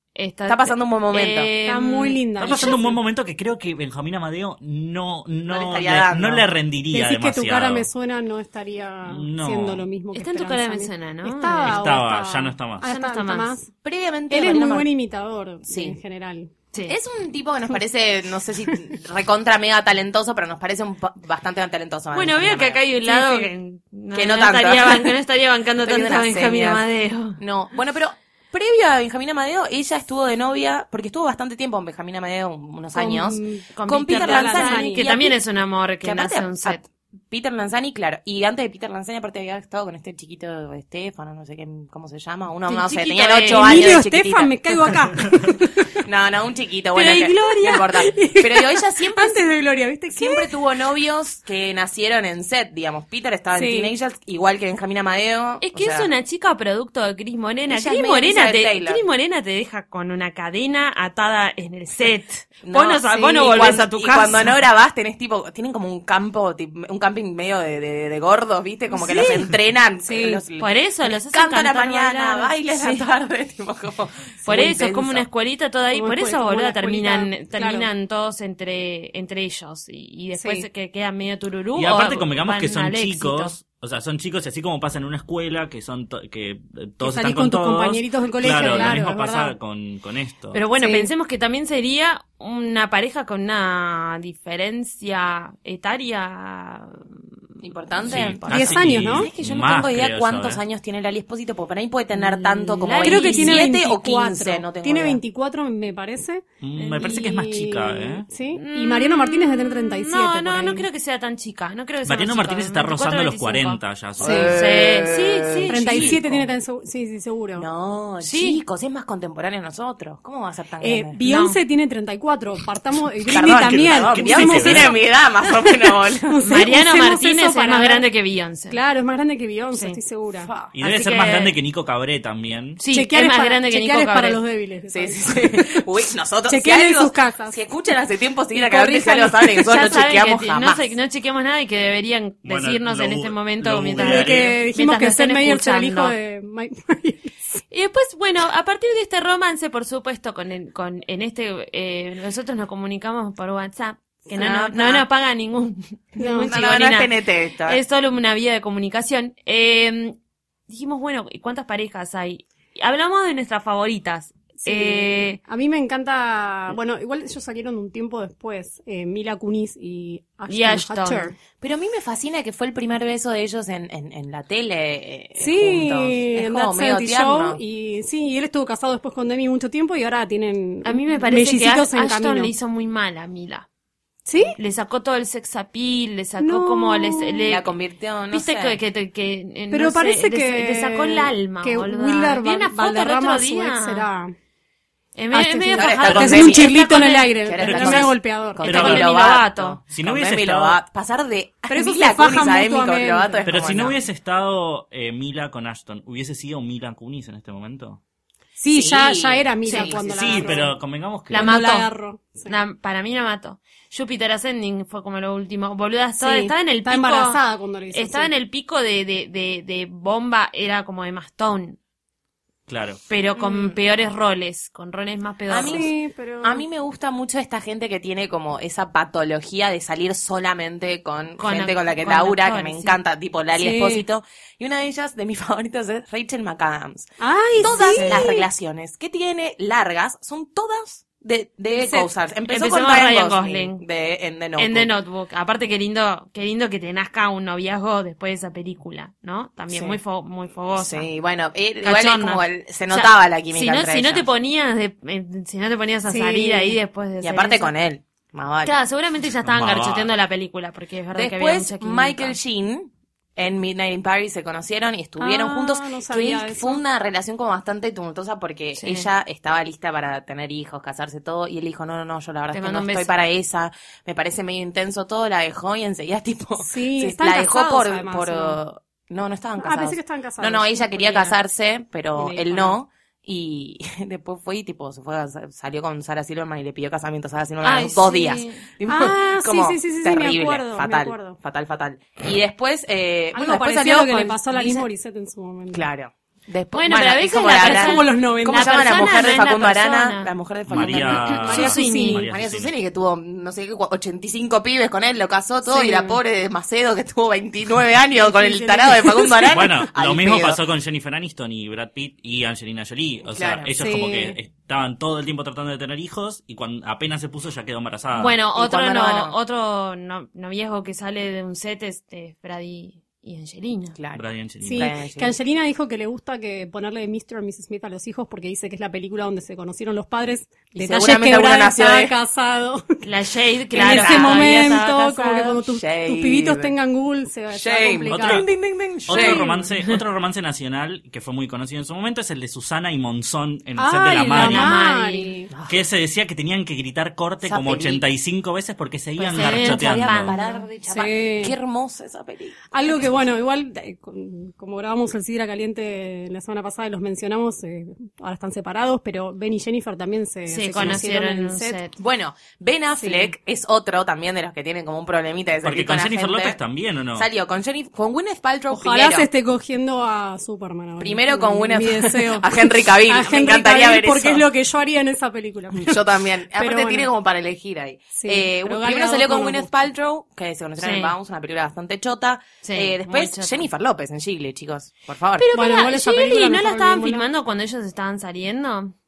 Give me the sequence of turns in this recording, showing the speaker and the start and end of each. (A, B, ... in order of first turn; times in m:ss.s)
0:00.2-0:02.8 A
0:00.5-0:01.5 B
0:01.6-0:03.0 C
0:02.4-0:07.9 D
0:05.5-0:06.5 B
0:06.9-0:13.7 C
0:09.1-0:09.9 D
0:10.1-0:11.8 A
0:11.6-0:12.8 D
0:12.8-0:13.6 A
0:13.8-0:14.9 B
0:14.3-0:16.5 C
0:15.7-0:16.0 B
0:16.9-0:23.4 B
0:22.1-0:27.4 A
0:24.1-0:25.2 B
0:25.8-0:26.8 B
0:27.4-0:35.4 B
0:32.9-0:35.1 C
0:33.7-0:36.8 A
0:36.0-0:44.9 B
0:42.7-0:44.0 A
0:43.4-0:45.8 C
0:46.0-0:49.4 B
0:46.9-0:47.9 A
0:47.7-0:50.6 C
0:50.1-0:56.1 B
0:53.5-0:53.9 C
0:55.6-1:04.5 A
0:57.7-0:59.0 B
1:02.6-1:15.3 B
1:03.1-1:03.8 C
1:08.9-1:10.4 C
1:10.6-1:13.0 A
1:14.5-1:23.6 A
1:15.9-1:17.9 C
1:20.4-1:20.7 C
1:21.8-1:30.6 D
1:27.0-1:29.6 C
1:28.5-1:28.9 A
1:30.5-1:37.4 A
1:30.8-1:31.1 C
1:37.6-1:45.2 B
1:38.0-1:38.5 A
1:38.0-1:40.6 D
1:38.5-1:39.3 C
1:42.1-1:43.7 A
1:43.0-1:46.4 C
1:46.6-1:48.3 D
1:46.8-1:47.2 A
1:47.0-1:50.9 C
1:48.5-1:56.3 A
1:52.0-1:54.5 D
1:54.2-1:56.5 B
1:54.2-1:54.5 C
1:55.7-1:57.7 C
1:57.6-2:01.2 B
1:58.2-1:58.6 A
2:00.8-2:08.1 C
2:01.2-2:01.6 A
2:03.3-2:06.4 B
2:04.0-2:04.9 D
2:06.4-2:08.8 A
2:08.7-2:10.5 C
2:09.7-2:10.0 A
2:10.4-2:10.7 B
2:10.7-2:12.8 D
2:10.8-2:11.5 A
2:12.8-2:14.4 A
2:12.9-2:15.9 C
2:14.9-2:20.9 B
2:16.5-2:17.6 C
2:18.6-2:19.5 C
2:19.6-2:26.2 A
2:22.4-2:24.6 D
2:24.0-2:27.6 C
2:27.7-2:40.2 A
2:34.3-2:35.1 B
2:36.2-2:36.5 C
2:36.5-2:37.8 B
2:40.7-2:45.4 A
2:44.6-2:51.4 C
2:50.5-2:51.3 A
2:51.6-2:57.6 B
2:55.4-3:02.5 C
3:00.8-3:03.7 A
3:04.3-3:04.6 C
3:04.6-3:07.7 A
3:06.4-3:07.5 C
3:07.5-3:08.8 B
3:08.3-3:14.1 A
3:09.7-3:14.3 C
3:15.2-3:18.1 A
3:15.3-3:18.8 C
3:15.7-3:16.8 B
3:17.4-3:24.0 B
3:17.6-3:18.1 D
3:18.6-3:19.1 D
3:18.6-3:19.8 A
3:19.9-3:20.8 D
3:21.7-3:23.5 C
3:23.5-3:28.0 D
3:28.6-3:30.8 C
3:28.7-3:30.6 B
3:29.7-3:31.5 D
3:31.3-3:32.6 C
3:31.3-3:31.9 A
3:32.4-3:37.4 A
3:36.2-3:38.3 C
3:37.9-3:41.8 A
3:42.7-3:43.0 D
3:43.1-3:45.9 A
3:43.4-3:43.8 B
3:45.5-4:04.9 B
3:45.6-3:46.7 C
3:51.4-3:53.0 A
3:53.6-3:54.0 C
3:57.2-3:58.5 C
3:57.8-3:58.3 A
4:01.7-4:02.1 C
4:02.5-4:03.8 A
4:04.6-4:11.1 A
4:09.7-4:10.0 B
4:10.8-4:14.3 B
4:11.8-4:17.7 A
4:16.0-4:16.8 C
4:17.2-4:18.7 B
4:18.6-4:22.4 A
4:19.4-4:20.1 D
4:21.1-4:54.9 B
4:25.2-4:26.8 C
4:28.8-4:29.1 A
4:32.5-4:33.1 A
4:36.6-4:38.6 C
4:39.6-4:41.4 C
4:42.2-4:42.8 C
4:47.6-4:48.7 A
4:48.9-4:51.4 C
4:53.3-4:55.9 C
4:55.7-5:10.6 B
4:56.7-5:02.2 A
4:57.5-4:59.2 C
5:00.7-5:02.7 D
5:00.9-5:02.2 C
5:05.6-5:06.2 C
5:08.1-5:09.6 C
5:09.5-5:18.4 D
5:13.3-5:13.7 B
5:13.8-5:14.4 C
5:18.2-5:24.0 A
5:18.6-5:19.3 B
5:24.0-5:24.2 B
5:24.1-5:24.9 D
5:24.6-5:33.1 C
5:24.7-5:25.4 B
5:30.8-5:32.1 B
5:33.0-5:35.6 A
5:33.7-5:38.5 C
5:33.8-5:34.8 B
5:35.6-5:36.7 B
5:37.5-5:39.5 B
5:38.1-5:38.5 D
5:39.1-5:44.7 D
5:39.1-5:39.4 C
5:43.8-5:45.5 C
5:44.3-5:45.3 A
5:45.5-5:45.8 B
5:45.7-5:50.4 D
5:47.4-5:48.0 B
5:49.2-5:50.6 A
5:49.2-5:53.3 B
5:50.9-5:51.6 C
5:52.7-6:01.8 C
6:00.5-6:01.9 A
6:02.0-6:06.6 B
6:03.0-6:03.3 C
6:05.6-6:07.3 D
6:07.2-6:09.3 B
6:08.7-6:17.1 C
6:11.0-6:14.5 B
6:15.7-6:25.5 B
6:18.1-6:19.7 C
6:20.8-6:21.1 A
6:22.6-6:23.7 A
6:25.4-6:28.9 A
6:25.5-6:27.3 C